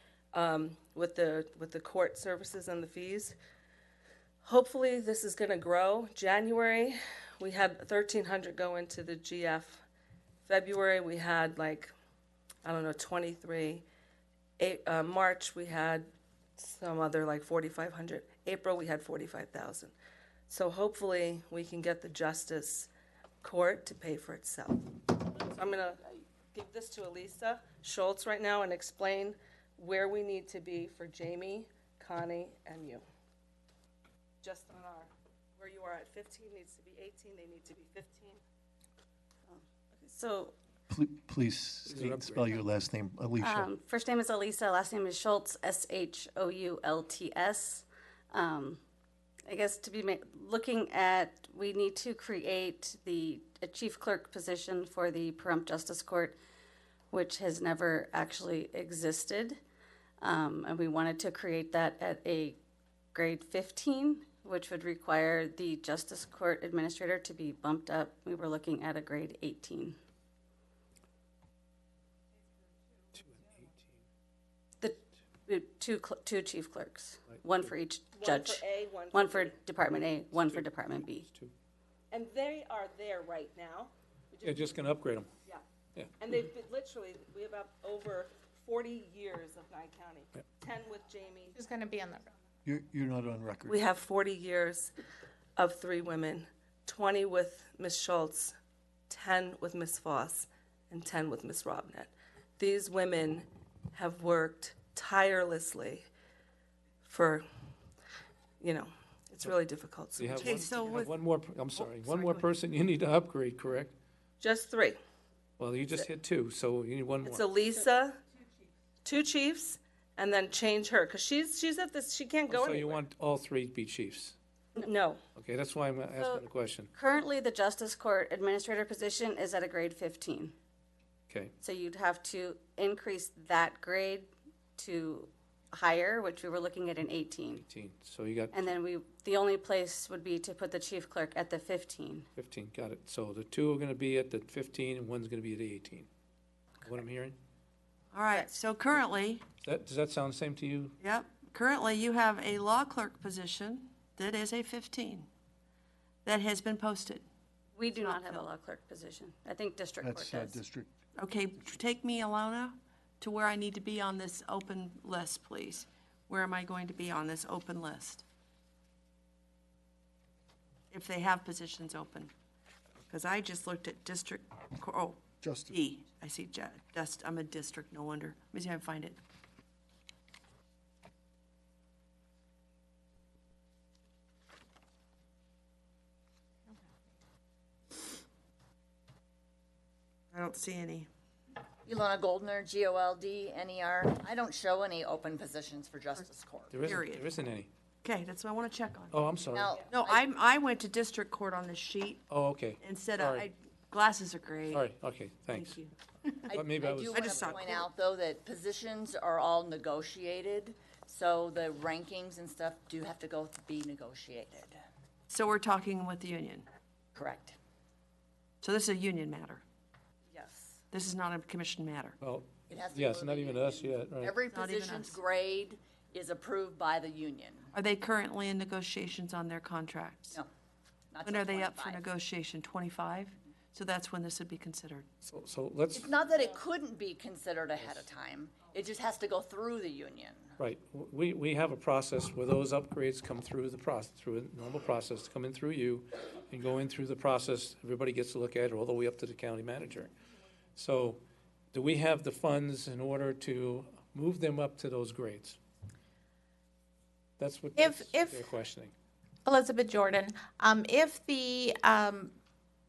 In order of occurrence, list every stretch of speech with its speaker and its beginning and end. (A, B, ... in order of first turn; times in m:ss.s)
0:00.3-0:03.3 A
0:04.4-0:09.8 A
0:10.4-0:11.9 A
0:12.6-0:13.8 A
0:14.6-0:19.9 A
0:20.5-0:22.9 A
0:23.4-0:26.0 A
0:26.5-0:33.0 A
0:34.4-0:38.4 A
0:39.5-0:40.5 B
0:40.9-0:43.7 C
0:41.8-0:42.6 D
0:43.4-0:48.8 B
0:49.5-0:56.4 B
0:57.1-0:59.6 B
1:00.2-1:02.6 B
1:03.1-1:10.0 B
1:13.1-1:13.8 D
1:14.8-1:21.2 B
1:18.1-1:19.5 A
1:20.3-1:21.5 D
1:22.1-1:24.8 A
1:24.4-1:25.3 D
1:26.2-1:31.6 A
1:31.5-1:32.3 E
1:32.6-1:33.8 C
1:33.7-1:34.9 A
1:35.6-1:38.5 A
1:39.1-1:46.1 A
1:47.0-1:47.4 A
1:48.6-1:50.9 A
1:50.2-1:53.9 D
1:50.4-1:51.1 F
1:54.4-1:55.0 A
1:55.6-1:57.5 D
1:57.2-1:58.2 A
1:59.0-2:03.0 A
2:02.5-2:04.3 D
2:04.8-2:05.2 A
2:05.4-2:06.9 D
2:06.2-2:06.4 B
2:06.9-2:10.5 B
2:11.3-2:11.5 D
2:11.6-2:17.6 B
2:17.6-2:18.7 D
2:18.5-2:22.2 B
2:22.4-2:26.1 D
2:26.8-2:27.4 D
2:28.1-2:29.4 F
2:29.6-2:30.9 D
2:31.0-2:35.3 F
2:36.2-2:37.2 F
2:37.8-2:40.6 B
2:37.9-2:38.5 F
2:40.0-2:40.9 C
2:41.2-2:48.2 F
2:50.9-2:52.3 F
2:53.1-2:59.2 F
2:55.4-2:55.7 C
3:10.3-3:11.1 F
3:11.8-3:16.8 G
3:16.7-3:17.7 D
3:16.8-3:17.2 F
3:18.0-3:19.2 F
3:19.1-3:19.8 D
3:19.5-3:20.2 G
3:19.9-3:22.2 F
3:22.3-3:23.4 D
3:22.8-3:24.8 F
3:24.7-3:25.8 D
3:25.5-3:25.9 F
3:26.4-3:34.8 G
3:26.5-3:27.4 D
3:27.1-3:27.8 F
3:35.3-3:36.6 F
3:37.1-3:37.6 G
3:38.6-3:39.6 F
3:40.3-3:40.8 G
3:40.9-3:42.2 F
3:42.2-3:44.4 D
3:42.7-3:47.7 G
3:44.5-3:45.2 F
3:47.7-3:50.4 F
3:51.1-3:52.1 G
3:51.2-3:55.0 F
3:55.2-3:56.1 D
3:55.9-4:00.5 G
4:00.6-4:10.1 D
4:10.8-4:11.2 D
4:11.7-4:15.6 D
4:17.4-4:18.9 D
4:17.8-4:18.4 E
4:19.4-4:22.3 E